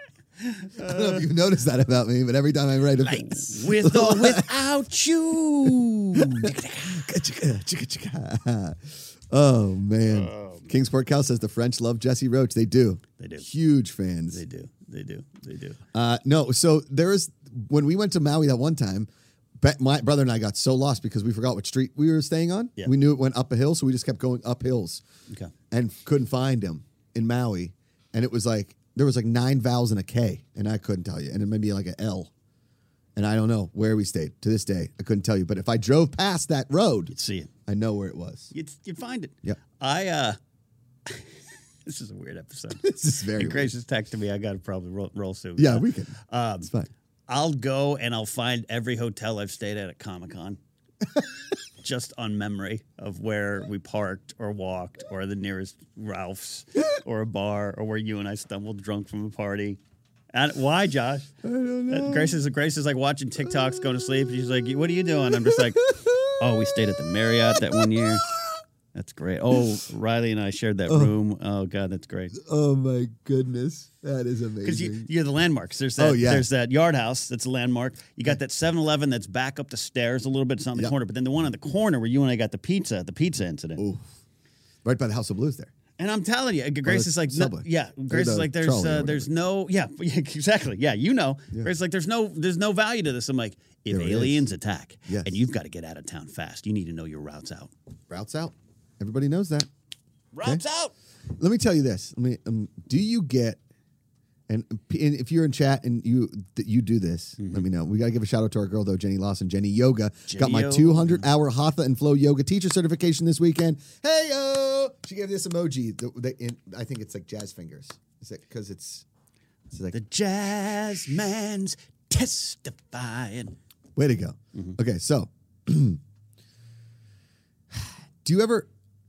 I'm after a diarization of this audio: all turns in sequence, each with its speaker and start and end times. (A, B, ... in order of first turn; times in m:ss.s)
0:00.4-0:01.2 A
0:00.8-0:04.5 B
0:03.0-0:07.0 A
0:06.1-0:14.4 B
0:10.0-0:10.7 A
0:13.2-0:13.5 A
0:14.3-0:15.8 A
0:15.9-0:19.1 B
0:19.6-0:25.0 B
0:25.7-0:32.3 B
0:33.2-0:37.1 B
0:37.1-0:37.5 A
0:37.7-0:38.5 B
0:38.5-0:40.4 A
0:41.1-0:46.7 A
0:42.8-0:43.7 B
0:45.6-0:46.9 B
0:47.3-0:50.6 A
0:51.8-0:59.8 A
1:00.3-1:01.3 A
1:01.4-1:02.4 B
1:01.9-1:08.3 A
1:03.4-1:08.6 B
1:08.9-1:12.3 A
1:10.9-1:11.2 B
1:12.3-1:15.1 B
1:14.6-1:23.8 A
1:16.0-1:16.5 B
1:23.8-1:24.1 B
1:24.8-1:25.7 B
1:26.0-1:37.7 A
1:26.8-1:29.3 B
1:33.9-1:34.5 B
1:35.1-1:35.4 B
1:38.1-1:39.7 B
1:40.3-1:40.9 A
1:41.4-1:43.6 B
1:44.5-1:59.0 B
1:47.4-1:47.7 A
1:50.3-1:51.3 A
1:59.7-1:59.9 B
1:59.9-2:03.6 A
2:04.0-2:06.0 B
2:07.7-2:08.7 B